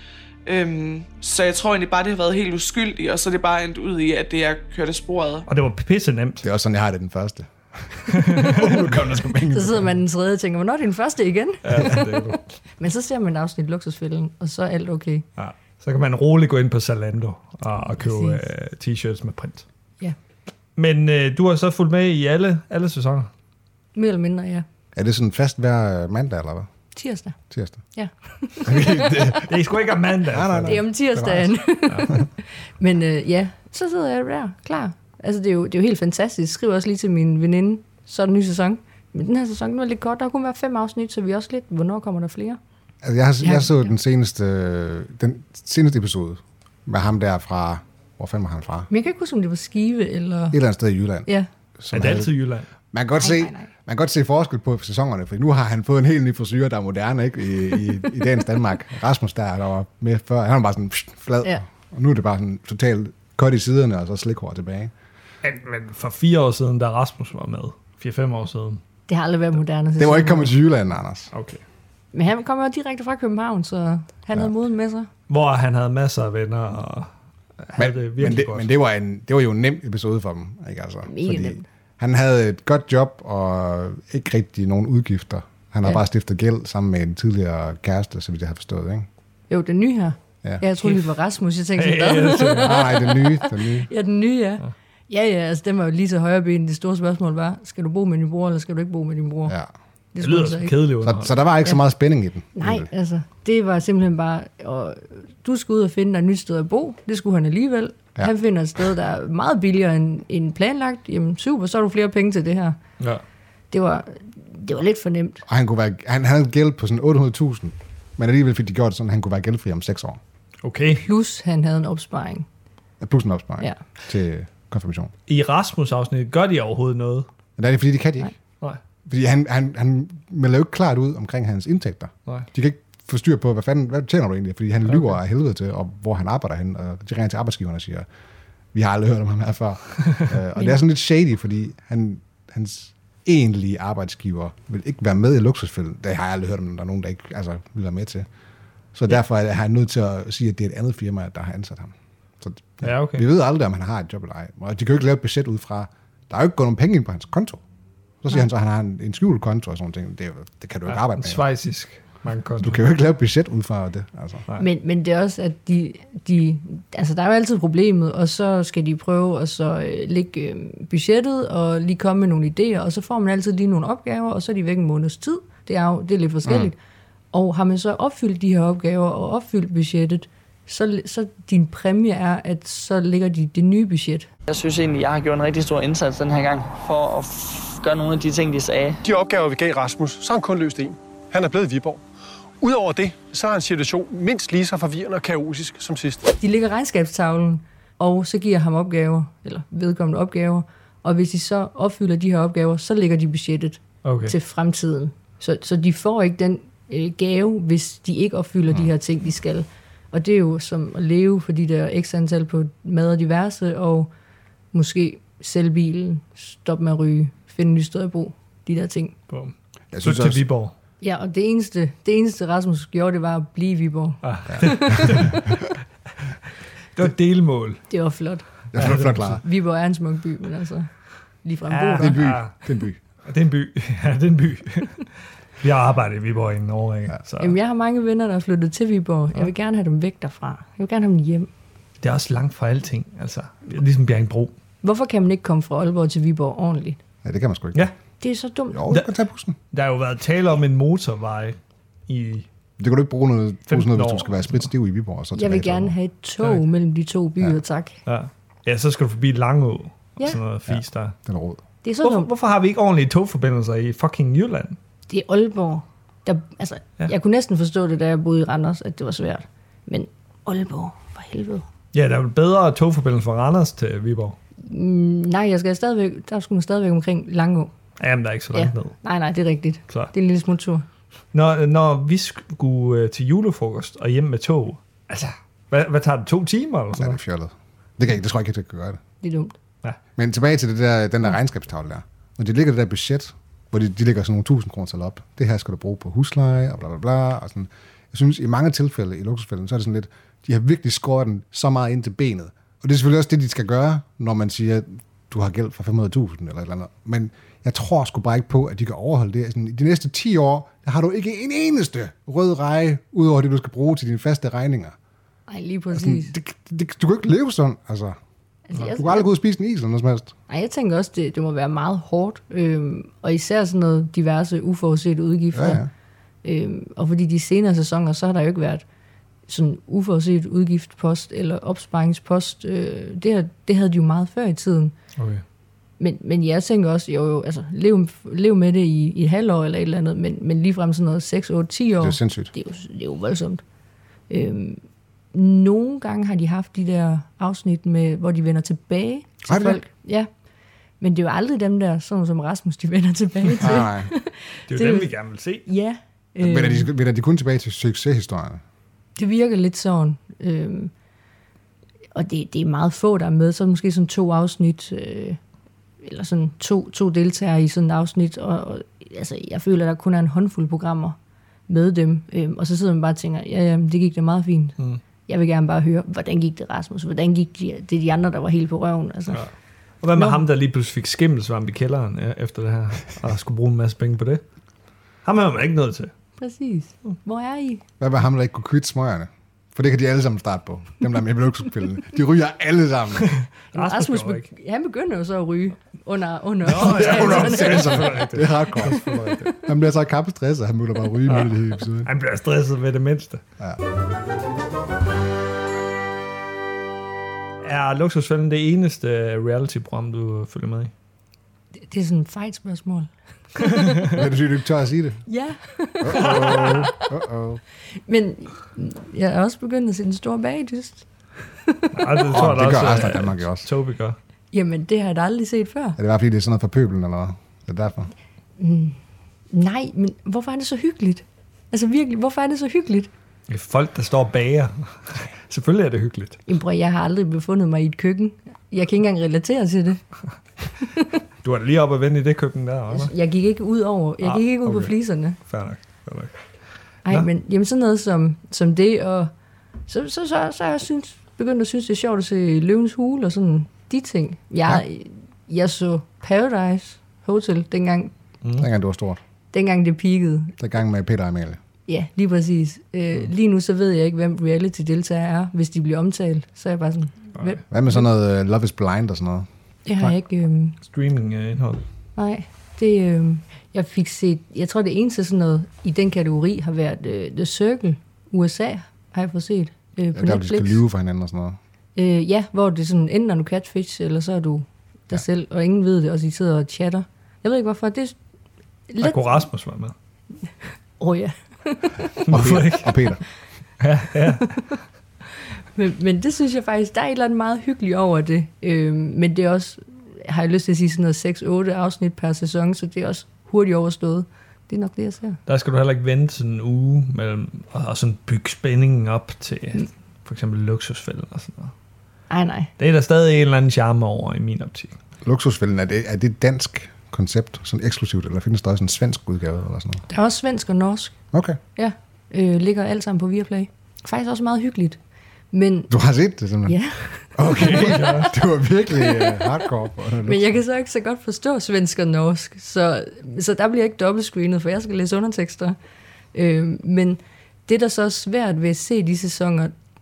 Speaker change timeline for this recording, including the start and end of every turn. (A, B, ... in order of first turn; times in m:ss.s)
0:00.4-0:05.5 A
0:05.5-0:06.5 B
0:06.4-0:09.9 C
0:08.1-0:08.8 B
0:09.5-0:12.2 D
0:11.6-0:12.5 B
0:12.8-0:15.2 D
0:15.4-0:19.6 B
0:18.0-0:18.4 D
0:20.8-0:23.3 B
0:23.9-0:24.6 D
0:24.9-0:26.7 C
0:26.9-0:27.4 D
0:27.5-0:27.8 C
0:27.9-0:29.3 D
0:28.6-0:31.6 C
0:29.5-0:30.8 B
0:30.6-0:42.6 D
0:43.0-0:48.9 C
0:43.4-0:43.9 D
0:48.9-0:50.6 D
0:50.5-0:52.3 C
0:51.9-0:52.7 B
0:52.9-1:04.9 C
0:53.2-0:53.7 D
1:05.4-1:08.8 B
1:09.1-1:10.6 D
1:10.0-1:11.3 C
1:11.3-1:11.6 B
1:12.1-1:15.1 D
1:15.3-1:17.1 B
1:17.6-1:18.7 B
1:17.8-1:29.1 C
1:21.1-1:21.6 D
1:29.5-1:39.6 D
1:30.8-1:31.1 B
1:31.7-1:32.8 B
1:32.6-1:33.9 C
1:40.1-1:40.8 D
1:40.2-1:41.4 B
1:41.0-1:42.9 C
1:42.5-1:52.8 D
1:53.7-1:55.4 D
1:55.4-2:00.2 C
2:00.6-2:01.0 B
2:01.0-2:02.4 D
2:03.0-2:05.1 C
2:05.3-2:07.3 B
2:07.6-2:08.3 C
2:09.1-2:18.0 C
2:18.7-2:28.3 C
2:28.9-2:37.6 C
2:32.8-2:33.2 B
2:38.2-2:41.4 C
2:40.9-2:42.8 B
2:42.6-2:44.4 C
2:44.6-2:56.8 D
2:56.4-2:56.7 C
2:57.3-3:04.3 D
3:04.5-3:09.0 E
3:09.0-3:12.0 F
3:12.6-3:16.2 F
3:16.4-3:34.1 D
3:24.0-3:24.3 B
3:34.7-3:39.1 D
3:39.3-3:40.7 B
3:39.9-3:40.4 C
3:41.0-3:45.4 D
3:44.2-3:45.5 B
3:44.5-3:45.6 C
3:46.9-3:47.8 B
3:47.9-3:50.9 D
3:48.7-3:49.4 C
3:48.7-3:49.3 B
3:51.4-3:52.2 D
3:51.7-3:52.5 B
3:52.0-3:53.0 C
3:53.2-3:57.6 B
3:57.4-4:01.5 D
4:02.0-4:04.5 B
4:04.8-4:07.0 D
4:07.2-4:07.9 C
4:08.2-4:08.8 D
4:08.7-4:09.6 C
4:09.7-4:11.6 B
4:12.1-4:12.5 B
4:12.8-4:16.0 C
4:13.7-4:14.7 B
4:15.3-4:18.0 D
4:18.0-4:21.1 B
4:20.7-4:21.6 C
4:21.8-4:22.3 D
4:22.0-4:24.8 B
4:25.1-4:31.6 D
4:31.9-4:34.4 B
4:34.6-4:37.7 D
4:38.0-4:38.9 B
4:38.5-4:40.8 D
4:41.3-4:47.2 B
4:46.9-4:49.0 C
4:49.2-4:49.6 D
4:50.2-5:15.0 C
5:15.5-5:16.3 D
5:15.9-5:18.2 C
5:18.7-5:19.3 D
5:18.9-5:20.3 C
5:20.5-5:25.8 D
5:25.5-5:25.9 C
5:26.4-5:28.8 D
5:29.5-5:34.9 D
5:35.2-5:35.4 B
5:36.0-5:43.6 D
5:42.0-5:42.5 C
5:44.3-5:44.8 D
5:45.3-5:50.3 D
5:49.5-5:49.8 C
5:51.0-5:55.1 D
5:53.6-5:54.1 C
5:54.7-5:55.7 B
5:55.6-5:56.9 D
5:56.4-5:58.6 C
5:59.2-6:00.9 D
6:02.1-6:05.4 D
6:06.0-6:11.2 D
6:11.7-6:19.4 D
6:20.0-6:24.4 B
6:20.1-6:20.4 D
6:25.2-6:26.1 B
6:26.4-6:27.8 D
6:28.0-6:33.3 C
6:33.2-6:34.4 B
6:33.7-6:38.2 D
6:36.6-6:39.5 B
6:36.7-6:42.1 C
6:41.3-6:43.4 B
6:47.6-6:50.9 B
6:51.8-6:53.1 D
6:53.6-6:54.1 B
6:54.0-6:55.2 C
6:55.3-6:57.1 D
6:56.0-6:57.6 C
6:56.2-6:56.9 B
6:58.0-7:01.1 D
7:01.6-7:02.3 D
7:01.9-7:04.2 B
7:02.3-7:03.7 C
7:04.5-7:06.0 D
7:06.0-7:08.1 C
7:08.6-7:09.0 D
7:09.5-7:13.1 D
7:13.5-7:16.4 B
7:16.5-7:20.0 D
7:20.8-7:21.1 D
7:21.4-7:23.1 B
7:22.9-7:25.4 D
7:24.2-7:26.4 B
7:27.0-7:29.3 D
7:29.9-7:38.1 D
7:38.4-7:38.7 B
7:38.6-7:39.2 C
7:39.5-7:40.5 D
7:40.6-7:41.6 C
7:41.9-7:48.0 D
7:47.7-7:49.5 C
7:49.8-7:50.8 D
7:50.8-7:51.8 B
7:52.2-8:00.8 D
8:00.1-8:01.6 C
8:02.0-8:08.2 D
8:08.9-8:09.2 D
8:09.0-8:09.9 B
8:11.0-8:12.0 D
8:12.2-8:13.1 B
8:12.3-8:13.2 C
8:13.8-8:14.7 B
8:15.7-8:25.4 D
8:25.5-8:31.7 B
8:32.3-8:32.7 D
8:32.8-8:34.9 B
8:35.2-8:40.0 C
8:40.1-8:41.2 D
8:41.3-8:41.6 C
8:41.8-8:45.0 D
8:45.5-8:45.9 D
8:45.9-8:46.8 C
8:46.6-8:47.3 D
8:47.3-8:50.6 C
8:47.5-8:48.3 B
8:49.0-8:49.5 D
8:50.2-8:55.8 D
8:56.3-8:59.7 D